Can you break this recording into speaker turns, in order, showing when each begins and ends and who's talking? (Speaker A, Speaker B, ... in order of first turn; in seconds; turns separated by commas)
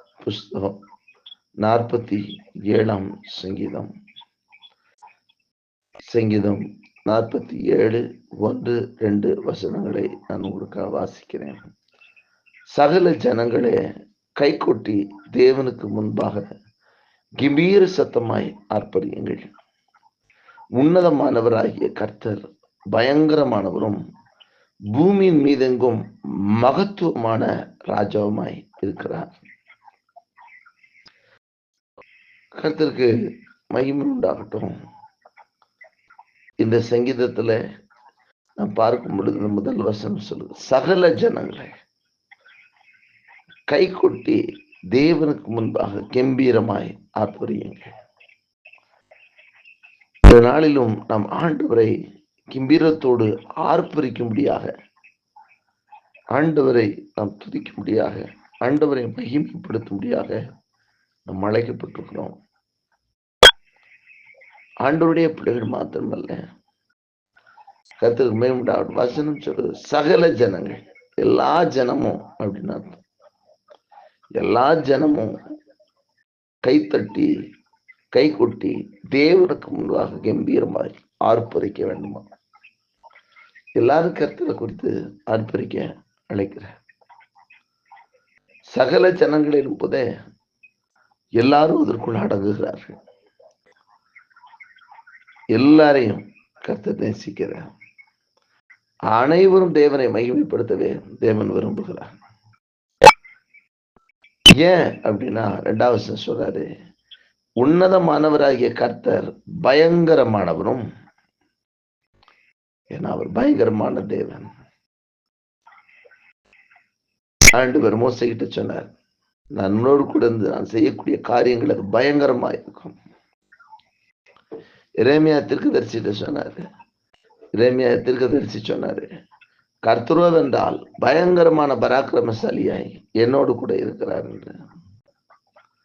Speaker A: 0.2-0.8, Speaker A: 1.6-3.9, Speaker A: 6.1-11.6, Speaker A: 12.7-13.8, Speaker A: 14.4-16.4, Speaker A: 17.4-19.5, Speaker A: 20.8-24.0, Speaker A: 24.9-26.0, Speaker A: 26.6-29.3, Speaker A: 32.6-33.2, Speaker A: 33.7-34.7, Speaker A: 36.6-37.6, Speaker A: 38.6-41.7, Speaker A: 43.7-44.4, Speaker A: 44.9-47.9, Speaker A: 50.3-51.9, Speaker A: 52.5-54.7, Speaker A: 56.3-60.4, Speaker A: 61.3-62.3, Speaker A: 64.8-66.5, Speaker A: 68.0-73.0, Speaker A: 74.4-75.3, Speaker A: 76.6-77.3, Speaker A: 78.1-82.2, Speaker A: 83.8-86.7, Speaker A: 88.7-90.0, Speaker A: 91.4-93.0, Speaker A: 95.5-97.7, Speaker A: 99.1-102.1, Speaker A: 104.6-106.7, Speaker A: 107.6-110.8, Speaker A: 112.9-114.5, Speaker A: 117.6-118.9, Speaker A: 119.6-123.0, Speaker A: 125.0-126.6, Speaker A: 127.6-129.1, Speaker A: 129.8-134.5